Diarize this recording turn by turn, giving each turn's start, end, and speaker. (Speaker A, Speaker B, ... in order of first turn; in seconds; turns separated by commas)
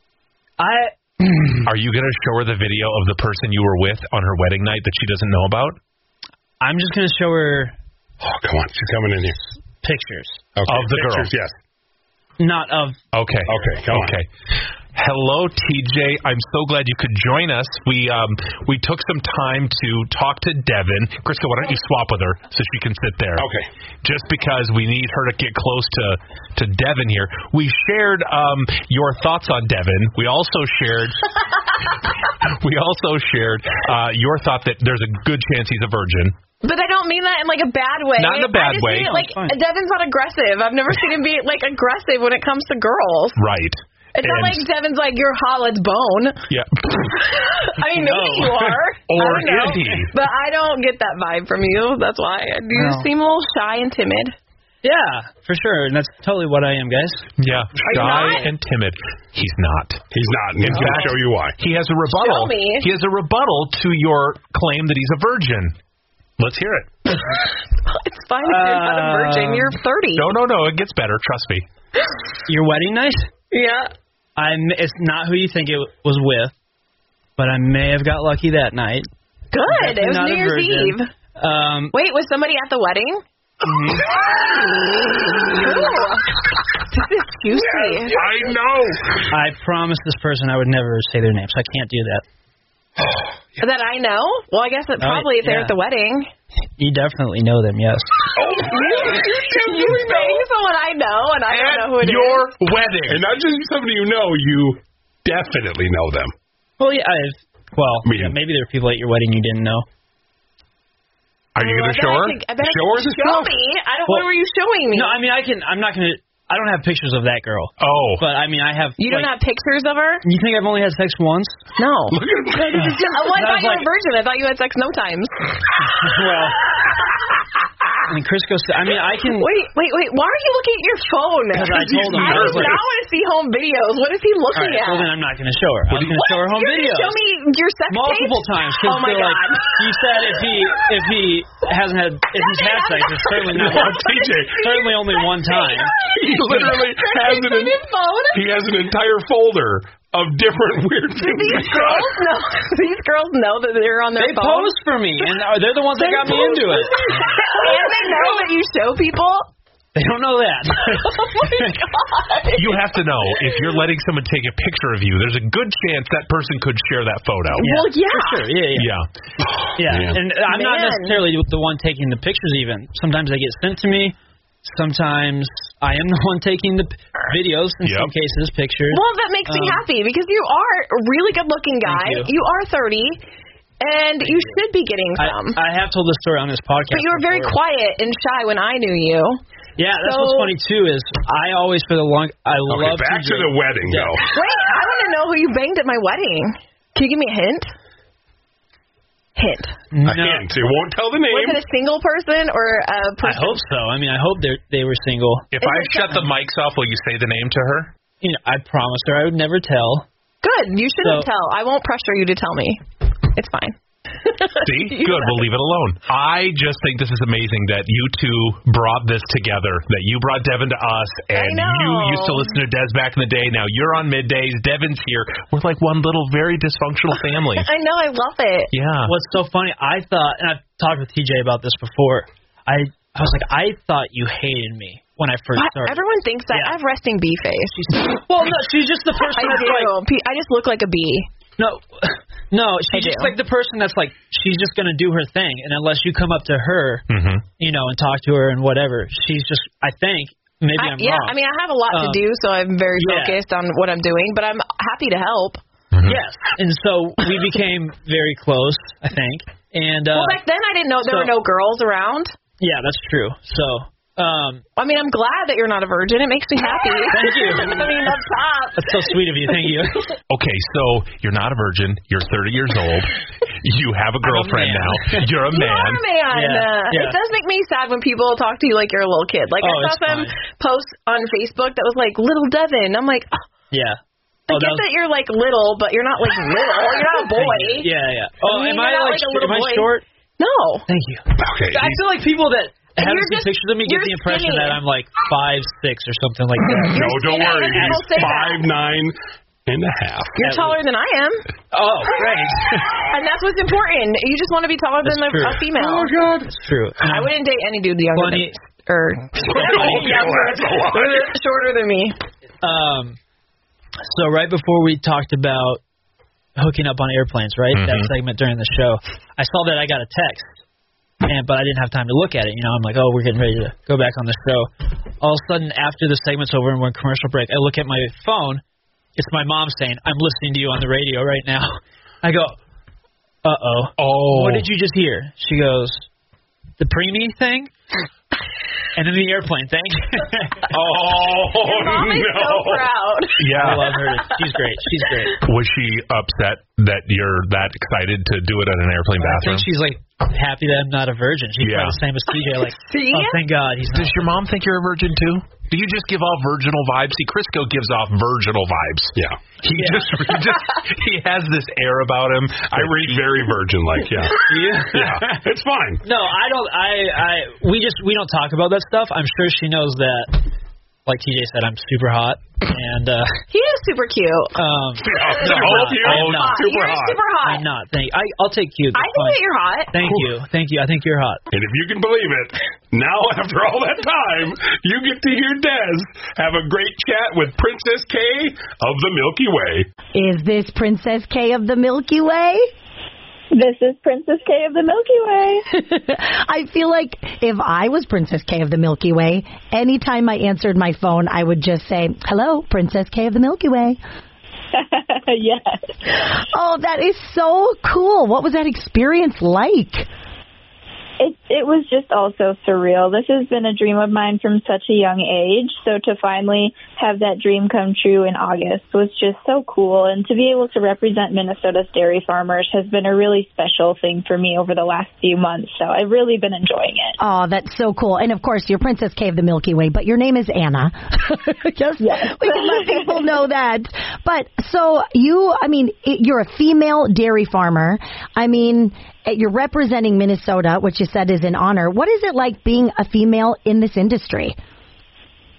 Speaker A: 0.6-1.7, Speaker B: 1.6-5.8, Speaker A: 6.6-7.8, Speaker C: 8.2-9.4, Speaker A: 9.8-10.4, Speaker C: 10.6-11.5, Speaker B: 10.7-11.3, Speaker A: 12.4-13.0, Speaker B: 13.1-14.3, Speaker C: 13.5-14.2, Speaker B: 14.9-23.5, Speaker C: 23.4-23.7, Speaker B: 24.0-36.4, Speaker D: 36.6-43.4, Speaker B: 38.2-39.2, Speaker A: 38.8-39.6, Speaker B: 43.4-44.7, Speaker D: 44.1-46.5, Speaker B: 46.5-47.3, Speaker D: 47.2-54.4, Speaker A: 47.9-48.8, Speaker B: 49.1-50.1, Speaker A: 52.7-53.1, Speaker A: 54.8-58.5, Speaker B: 57.4-60.0, Speaker D: 57.8-58.5, Speaker C: 60.1-61.6, Speaker B: 60.6-65.8, Speaker D: 62.1-62.9, Speaker B: 66.4-67.2, Speaker D: 67.8-70.4, Speaker A: 68.4-69.8, Speaker B: 70.2-71.7, Speaker A: 72.5-73.3, Speaker D: 73.5-73.9, Speaker A: 74.4-76.5, Speaker A: 77.4-79.1, Speaker D: 79.5-81.1, Speaker A: 79.7-81.9, Speaker D: 81.9-83.2, Speaker A: 83.7-84.0, Speaker D: 84.9-86.4, Speaker D: 86.9-88.2, Speaker C: 87.5-89.3, Speaker B: 88.2-88.5, Speaker A: 89.3-92.2, Speaker D: 93.6-96.3, Speaker A: 95.0-95.8, Speaker A: 96.8-98.3, Speaker C: 98.3-100.5, Speaker D: 98.5-102.5, Speaker B: 101.5-103.2, Speaker C: 103.1-106.3, Speaker A: 106.8-109.9, Speaker C: 108.0-108.4, Speaker B: 111.6-112.4, Speaker D: 111.6-115.2, Speaker C: 112.6-113.5, Speaker A: 114.9-119.3, Speaker B: 117.8-118.2, Speaker D: 119.0-120.2, Speaker A: 120.2-121.6, Speaker D: 121.8-122.2, Speaker C: 122.1-123.2, Speaker A: 122.7-123.9, Speaker D: 122.8-125.4, Speaker A: 125.9-126.6, Speaker A: 128.1-129.5, Speaker D: 129.4-135.1, Speaker A: 131.5-132.8, Speaker C: 131.7-132.8, Speaker A: 134.5-137.2, Speaker B: 135.9-136.2, Speaker D: 136.3-139.9, Speaker A: 137.9-146.8, Speaker D: 142.4-148.5, Speaker C: 143.5-144.8, Speaker C: 146.1-152.2, Speaker D: 151.2-154.7, Speaker A: 154.2-158.0, Speaker D: 156.0-159.5, Speaker A: 159.9-161.8, Speaker D: 160.9-163.6, Speaker B: 162.6-167.7, Speaker D: 167.6-168.5, Speaker A: 167.6-168.9, Speaker B: 168.7-169.1, Speaker C: 169.7-170.2, Speaker A: 169.8-179.8, Speaker D: 170.5-171.2, Speaker B: 177.8-178.1, Speaker D: 178.9-183.2, Speaker A: 181.8-182.3, Speaker D: 183.8-185.6, Speaker A: 184.2-184.6, Speaker A: 185.2-187.6, Speaker D: 186.9-189.4, Speaker A: 189.8-194.2, Speaker D: 190.0-190.5, Speaker C: 192.7-194.3, Speaker D: 194.3-197.7, Speaker D: 199.4-199.8, Speaker A: 199.9-200.5, Speaker C: 200.1-201.6, Speaker D: 201.3-203.6, Speaker A: 203.2-205.5, Speaker B: 205.5-207.9, Speaker D: 205.6-206.2, Speaker A: 208.2-210.1, Speaker D: 210.4-215.5, Speaker A: 211.0-211.3, Speaker B: 214.6-227.7, Speaker D: 221.3-222.6, Speaker D: 227.6-228.7, Speaker B: 228.7-229.1, Speaker A: 229.1-236.8, Speaker D: 235.6-238.2, Speaker A: 237.9-239.9, Speaker D: 239.2-241.3, Speaker A: 241.6-247.1, Speaker D: 242.9-243.3, Speaker B: 247.1-247.4, Speaker A: 247.6-251.4, Speaker D: 250.8-255.6, Speaker A: 251.9-252.2, Speaker A: 253.0-253.4, Speaker B: 255.9-256.2, Speaker A: 256.1-260.4, Speaker D: 260.1-262.3, Speaker A: 261.0-261.3, Speaker A: 262.6-264.6, Speaker D: 264.8-269.0, Speaker A: 267.1-268.2, Speaker A: 268.8-270.1, Speaker B: 270.3-276.1, Speaker A: 274.2-275.3, Speaker D: 275.5-283.4, Speaker A: 276.3-277.2, Speaker A: 279.6-280.4, Speaker A: 283.7-284.0, Speaker D: 284.5-287.9, Speaker A: 284.5-284.9, Speaker A: 286.9-290.0, Speaker D: 288.4-290.9, Speaker A: 290.9-298.4, Speaker C: 291.4-292.0, Speaker D: 293.0-294.8, Speaker C: 296.8-299.1, Speaker D: 296.9-298.7, Speaker C: 299.7-300.4, Speaker D: 300.4-301.5, Speaker A: 300.4-300.8, Speaker A: 301.7-303.0, Speaker D: 302.9-306.1, Speaker A: 305.0-307.3, Speaker D: 307.0-312.2, Speaker A: 308.1-308.6, Speaker A: 309.4-310.5, Speaker C: 309.4-311.3, Speaker A: 312.6-313.2, Speaker A: 314.0-315.8, Speaker A: 316.6-320.6, Speaker B: 317.7-318.1, Speaker A: 321.2-328.6, Speaker A: 329.2-332.6, Speaker A: 333.4-336.1, Speaker B: 334.0-334.7, Speaker A: 336.8-337.7, Speaker A: 338.9-340.7, Speaker C: 340.7-342.9, Speaker D: 341.5-344.0, Speaker B: 343.4-343.9, Speaker A: 343.5-345.4, Speaker B: 345.4-349.7, Speaker A: 349.2-354.3, Speaker B: 351.6-352.0, Speaker D: 352.6-353.4, Speaker B: 353.9-363.5, Speaker A: 359.8-360.3, Speaker C: 362.7-366.0, Speaker A: 364.5-365.4, Speaker A: 366.0-370.5, Speaker A: 371.1-373.4, Speaker D: 373.5-374.6, Speaker A: 374.6-376.7, Speaker C: 375.0-377.2, Speaker D: 375.3-377.6, Speaker B: 375.4-376.5, Speaker A: 377.4-381.4, Speaker D: 378.9-379.9, Speaker C: 381.5-389.9, Speaker E: 390.1-392.7, Speaker F: 393.5-395.7, Speaker E: 395.7-404.0, Speaker F: 404.7-405.9, Speaker E: 406.4-410.1, Speaker F: 411.2-427.2, Speaker E: 427.2-444.6, Speaker F: 432.0-433.3